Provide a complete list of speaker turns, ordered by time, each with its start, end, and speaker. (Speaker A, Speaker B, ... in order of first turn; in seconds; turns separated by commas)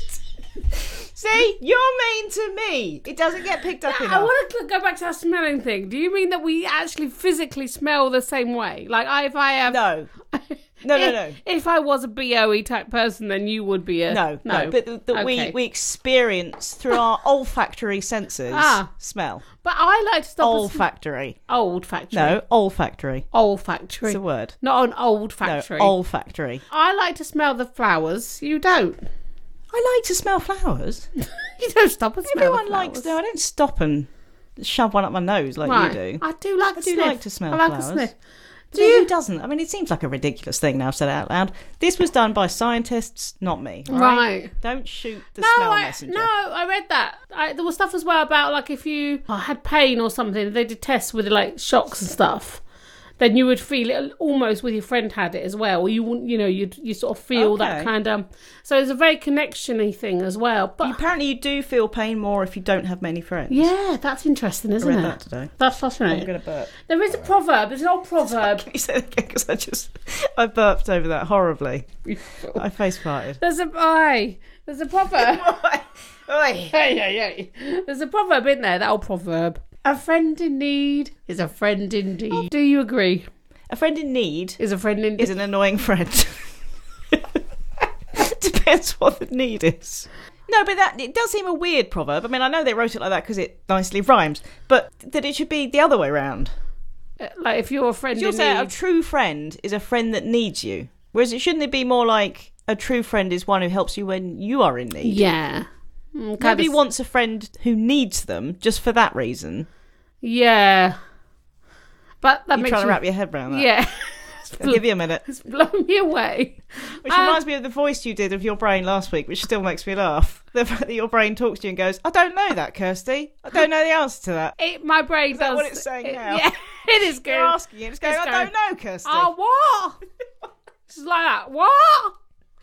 Speaker A: 1.0-4.3, Speaker B: 3.8-9.8, Speaker A: 9.7-10.1, Speaker B: 10.3-15.5, Speaker A: 10.8-11.4, Speaker A: 14.1-19.4, Speaker B: 18.5-18.9, Speaker B: 19.5-20.8, Speaker A: 20.4-21.4, Speaker B: 21.5-22.4, Speaker A: 22.1-23.2, Speaker B: 23.3-25.9, Speaker A: 24.1-24.6, Speaker A: 25.4-26.6, Speaker B: 26.7-29.0, Speaker A: 29.7-31.1, Speaker B: 31.2-33.1, Speaker A: 32.2-36.2, Speaker B: 35.6-38.1, Speaker A: 36.8-38.1, Speaker B: 38.7-39.1, Speaker A: 38.7-46.3, Speaker B: 43.9-44.5, Speaker B: 45.4-52.6, Speaker B: 53.2-61.0, Speaker A: 57.3-57.9, Speaker A: 60.8-63.7, Speaker B: 63.5-68.7, Speaker A: 64.8-65.5, Speaker A: 66.1-66.7, Speaker A: 68.2-71.9, Speaker B: 72.1-72.6, Speaker A: 72.5-73.4, Speaker B: 73.4-75.5, Speaker A: 75.1-76.7, Speaker B: 76.7-83.3, Speaker A: 83.7-84.6, Speaker B: 84.6-85.3, Speaker A: 85.2-86.5, Speaker A: 87.1-87.4, Speaker A: 88.1-96.5, Speaker B: 97.2-98.7, Speaker A: 98.1-105.2, Speaker B: 105.0-106.8, Speaker A: 106.4-109.7, Speaker B: 110.2-111.0, Speaker B: 112.2-117.4, Speaker A: 112.5-113.7, Speaker A: 114.6-115.2, Speaker A: 117.0-124.5, Speaker B: 124.6-128.5, Speaker A: 125.3-126.5, Speaker A: 127.2-129.3, Speaker B: 129.0-130.0, Speaker B: 130.9-132.2